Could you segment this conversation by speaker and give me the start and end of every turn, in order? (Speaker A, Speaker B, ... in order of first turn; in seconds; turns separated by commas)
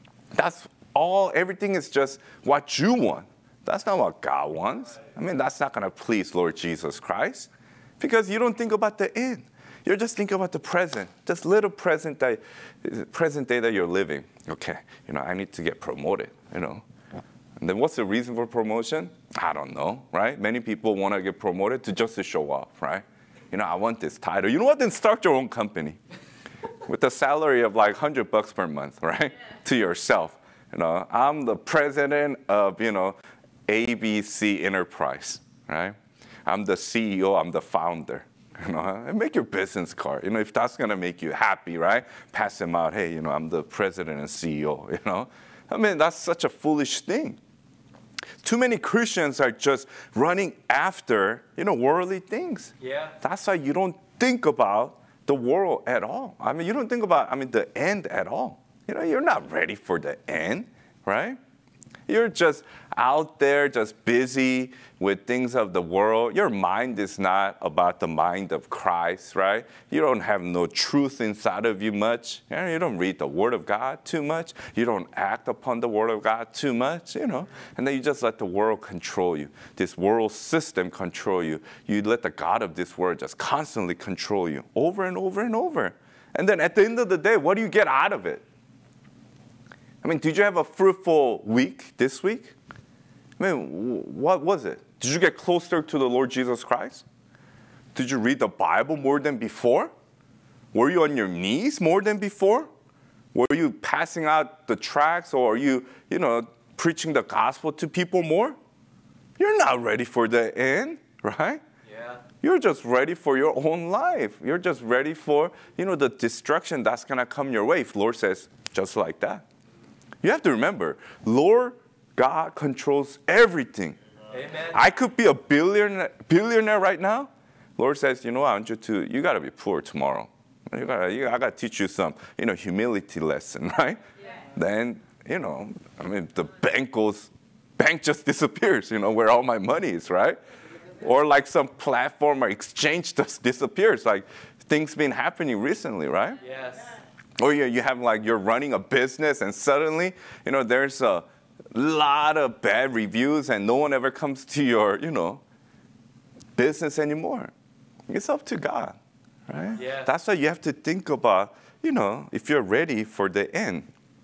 Speaker A: 0.3-16.8, Speaker A: 17.6-26.0, Speaker A: 26.8-47.4, Speaker A: 48.4-61.4, Speaker B: 52.8-53.2, Speaker A: 62.1-88.4, Speaker A: 90.0-92.5, Speaker A: 93.4-97.0, Speaker A: 97.9-99.9, Speaker A: 100.7-102.7, Speaker A: 103.3-108.6, Speaker A: 109.4-111.6, Speaker B: 111.8-112.2, Speaker A: 112.4-119.5, Speaker A: 120.2-124.0, Speaker B: 124.3-124.8, Speaker A: 124.7-140.4, Speaker A: 141.0-146.4, Speaker B: 146.4-147.0, Speaker A: 147.4-155.4, Speaker A: 156.6-157.5, Speaker A: 158.1-163.9, Speaker B: 159.8-160.1